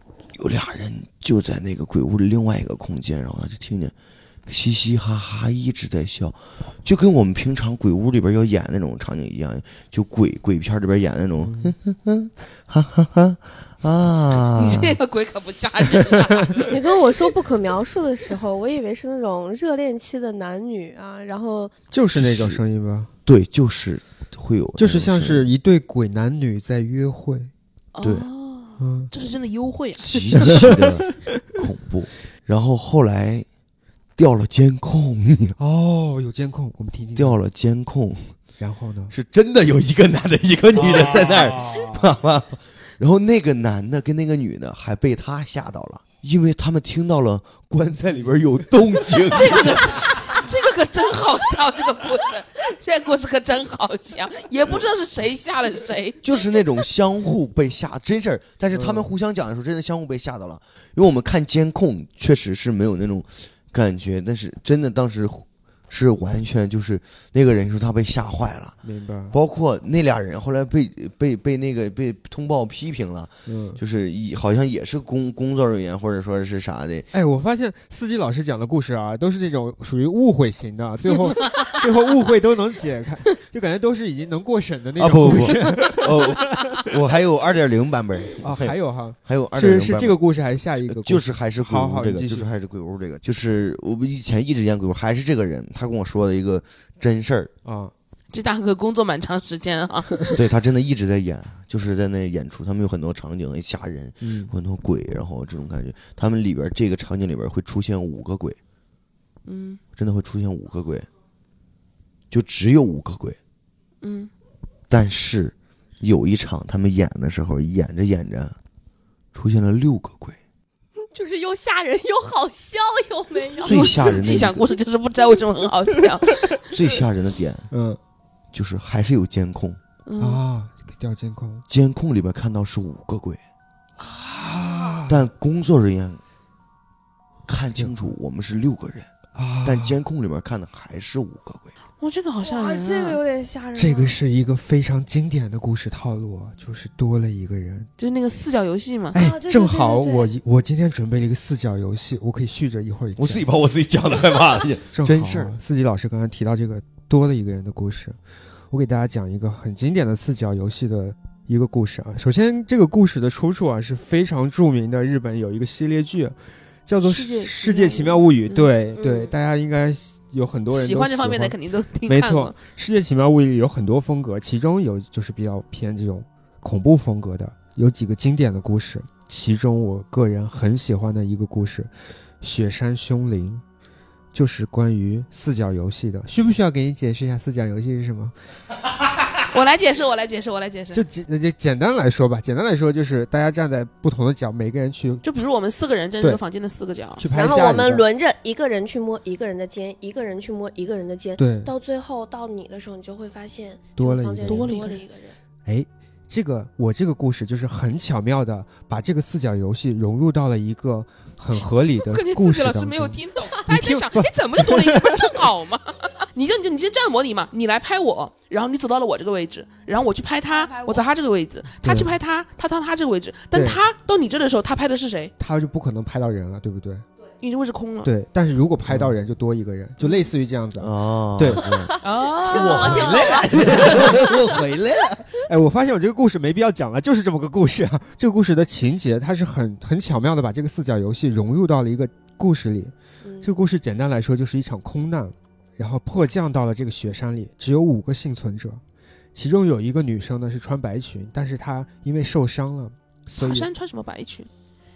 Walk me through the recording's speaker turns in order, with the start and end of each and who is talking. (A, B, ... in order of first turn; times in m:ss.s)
0:00.3-0:03.9 A
0:04.5-0:15.0 A
0:11.4-0:11.8 B
0:14.5-0:16.8 C
0:16.7-0:21.7 D
0:21.9-0:23.1 B
0:22.2-0:22.6 A
0:23.3-0:25.5 A
0:24.8-0:27.5 B
0:27.9-0:30.7 C
0:28.0-0:28.3 A
0:28.8-0:29.1 B
0:30.0-0:33.5 A
0:30.1-0:31.2 B
0:34.2-0:35.6 A
0:35.6-0:37.4 B
0:37.2-0:38.4 A
0:38.6-0:39.1 B
0:39.1-0:49.9 A
0:49.3-0:56.2 C
0:56.2-1:08.8 A
0:58.7-0:59.1 B
1:08.8-1:09.4 B
1:09.3-1:17.1 A
1:13.5-1:13.8 B
1:17.1-1:26.7 B
1:25.0-1:30.2 A
1:28.4-1:32.5 B
1:30.8-1:37.5 A
1:37.6-1:37.9 B
1:38.3-1:40.4 C
1:40.3-1:48.6 A
1:44.2-1:44.5 B
1:49.5-1:49.8 C
1:50.0-1:51.1 A
1:52.3-1:53.4 A
1:54.0-1:54.3 C
1:54.9-1:58.6 A
1:59.3-2:00.4 A
2:01.1-2:03.9 D
2:03.6-2:04.7 A
2:03.6-2:06.5 C
2:06.7-2:07.7 A
2:07.7-2:08.0 B
2:08.5-2:09.8 A
2:10.1-2:10.4 C
2:10.2-2:11.6 B
2:11.7-2:13.4 A
2:14.0-2:15.3 B
2:15.1-2:16.2 A
2:17.5-2:19.1 A
2:19.4-2:20.0 B
2:19.6-2:21.7 A
2:22.0-2:23.2 C
2:22.4-2:24.2 D
2:23.8-2:27.9 B
2:28.0-2:29.2 C
2:29.1-2:33.5 B
2:29.1-2:30.3 D
2:33.2-2:35.5 A
2:34.9-2:38.2 B
2:38.7-2:51.6 B
2:47.0-2:48.7 C
2:49.0-2:49.3 D
2:50.7-2:52.6 C
2:52.1-3:03.6 B
3:04.3-3:08.4 B
3:09.5-3:11.0 C
3:10.9-3:15.2 B
3:15.2-3:17.2 C
3:17.2-3:18.0 B
3:17.3-3:25.4 D
3:21.4-3:21.7 B
3:24.0-3:24.8 B
3:24.5-3:25.0 C
3:25.6-3:35.4 B
3:32.1-3:45.3 C
3:40.5-3:41.1 D
3:41.8-3:42.2 B
3:43.5-3:43.8 B
3:45.4-3:47.1 B
3:47.4-3:48.1 C
3:48.0-3:51.9 B
3:48.9-3:49.1 A
3:50.0-3:50.3 C
3:50.8-3:55.3 A
3:52.0-3:53.8 C
3:52.5-3:53.6 D
3:53.8-3:54.2 B
3:55.5-4:08.8 B
4:03.2-4:03.5 D
4:09.3-4:13.7 B
4:13.4-4:14.5 C